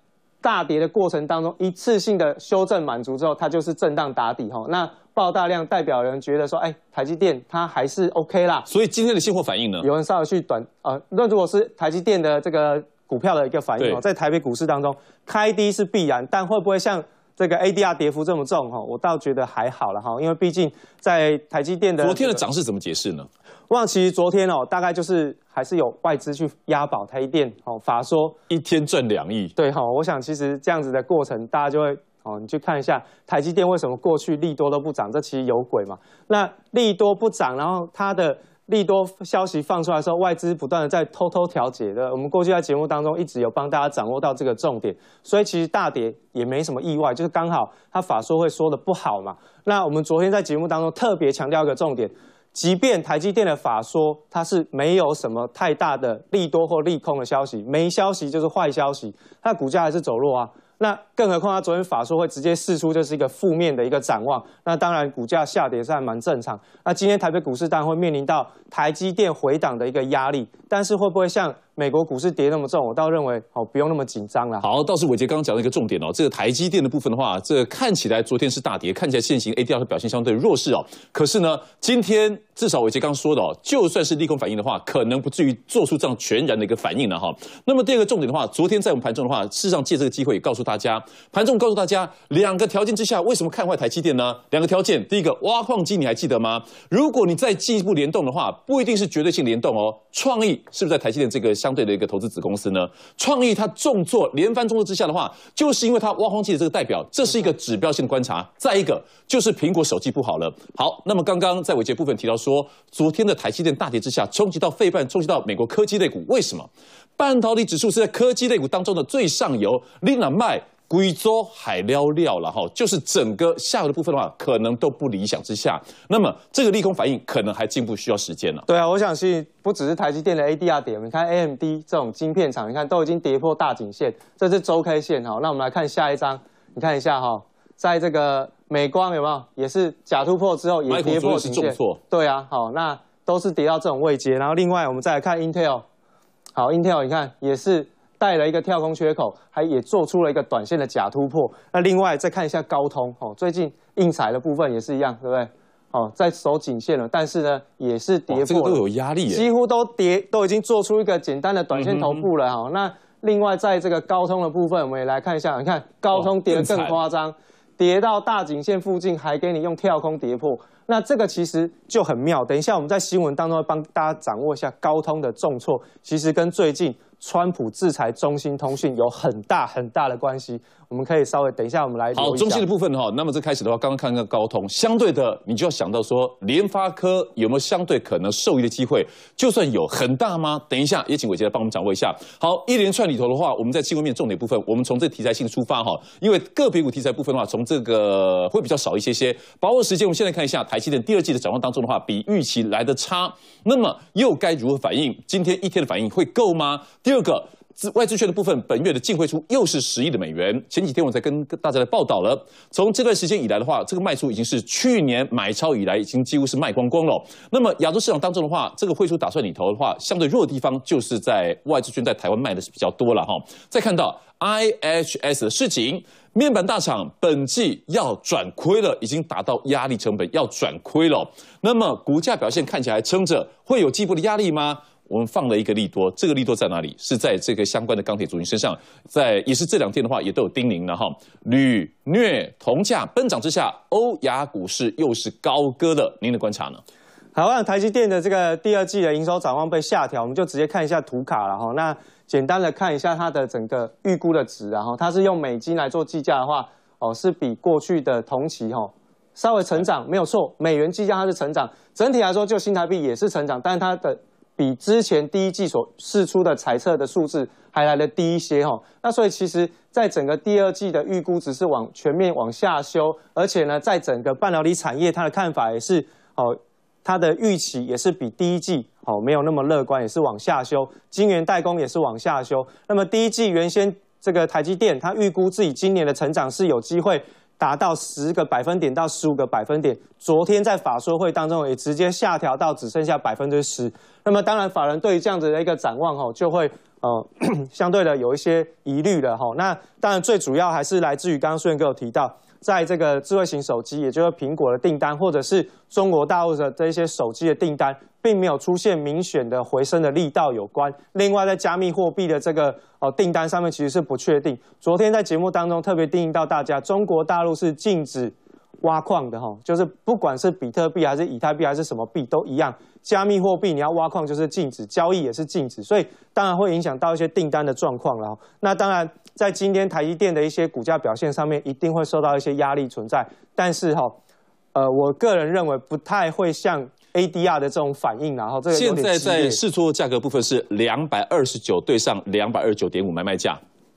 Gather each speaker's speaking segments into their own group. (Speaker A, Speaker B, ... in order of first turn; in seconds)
Speaker A: 0.4-8.7, 9.8-22.4, 23.7-28.4, 29.6-74.7, 128.7-145.8, 146.6-182.7, 247.3-334.2, 334.7-339.6
Speaker B: 8.7-9.9, 22.0-23.3, 28.5-29.5, 74.6-128.6, 140.9-142.0, 158.3-159.4, 161.7-162.2, 166.1-166.9, 182.1-246.8, 338.7-343.6